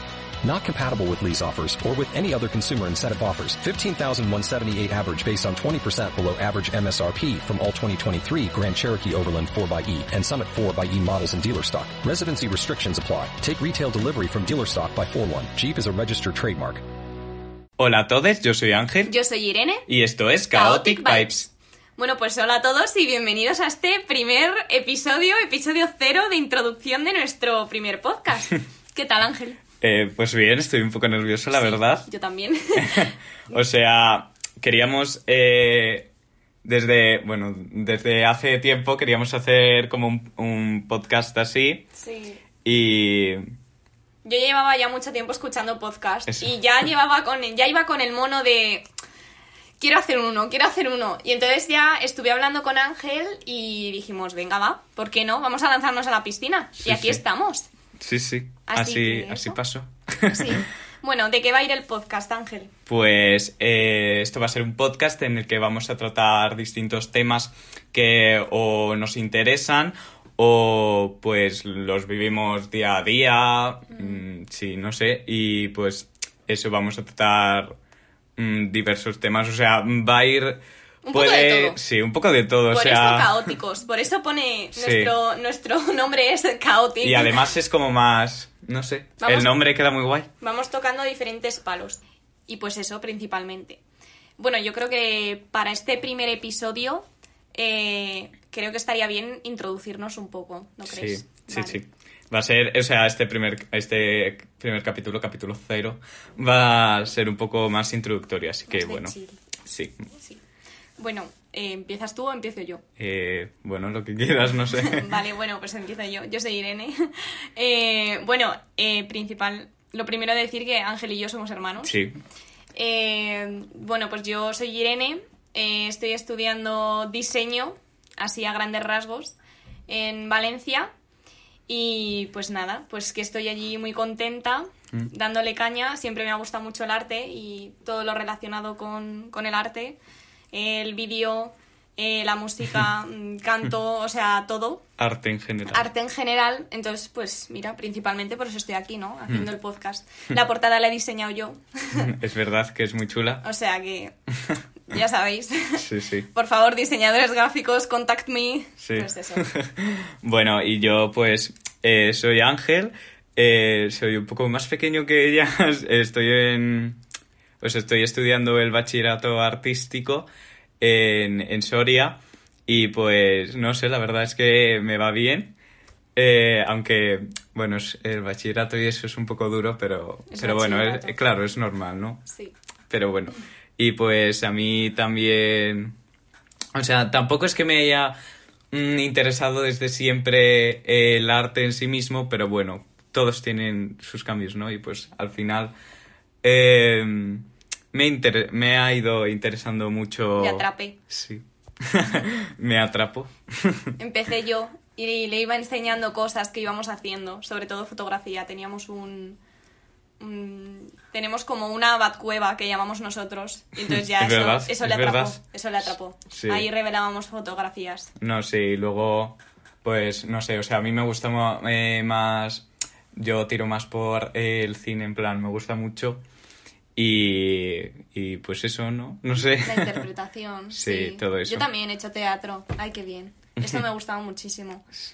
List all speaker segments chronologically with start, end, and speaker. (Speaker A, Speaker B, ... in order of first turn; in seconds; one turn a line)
Speaker A: 0.4-16.8
Speaker B: 17.8-19.1
Speaker C: 19.0-19.9
Speaker B: 19.9-21.5
Speaker C: 20.5-29.6
Speaker B: 29.8-32.1
Speaker C: 31.5-33.6
Speaker B: 33.5-36.1
Speaker B: 36.6-41.9
Speaker C: 41.9-42.4
Speaker B: 42.6-43.5
Speaker C: 44.2-48.9
Speaker C: 49.8-57.7
Speaker B: 56.8-57.2
Speaker B: 58.0-60.6
Speaker C: 58.7-59.6
Speaker C: 60.3-62.7
Speaker B: 62.9-77.7
Speaker C: 73.9-74.2
Speaker B: 78.4-83.5
Speaker C: 81.0-81.8
Speaker C: 82.7-87.5
Speaker B: 84.8-85.1
Speaker B: 87.0-90.3
Speaker C: 89.2-89.5
Speaker C: 90.4-93.8
Speaker C: 94.4-101.8
Speaker B: 100.8-109.1
Speaker C: 108.7-109.4
Speaker B: 109.6-110.0
Speaker C: 110.1-110.4
Speaker C: 111.0-112.8
Speaker B: 113.0-115.0
Speaker C: 114.7-122.0
Speaker B: 121.8-122.2
Speaker C: 122.8-129.3
Speaker C: 129.9-130.9
Speaker C: 131.7-140.0
Speaker C: 140.5-144.8
Speaker B: 145.0-145.8
Speaker C: 145.7-152.1
Speaker B: 152.0-153.4
Speaker C: 153.4-154.1
Speaker C: 154.8-159.4
Speaker B: 155.8-156.3
Speaker B: 158.8-167.0
Speaker B: 167.6-170.3
Speaker B: 170.8-175.5
Speaker B: 176.2-182.2
Speaker C: 180.3-181.2
Speaker C: 182.3-182.5
Speaker B: 182.9-185.9
Speaker B: 186.7-188.2
Speaker B: 188.7-195.7
Speaker B: 196.4-203.9
Speaker C: 200.4-201.0
Speaker C: 204.0-209.4
Speaker C: 210.2-218.1
Speaker B: 213.9-215.3
Speaker B: 216.3-216.7
Speaker B: 218.2-226.2
Speaker B: 226.9-230.0
Speaker C: 229.5-234.8
Speaker B: 230.7-231.7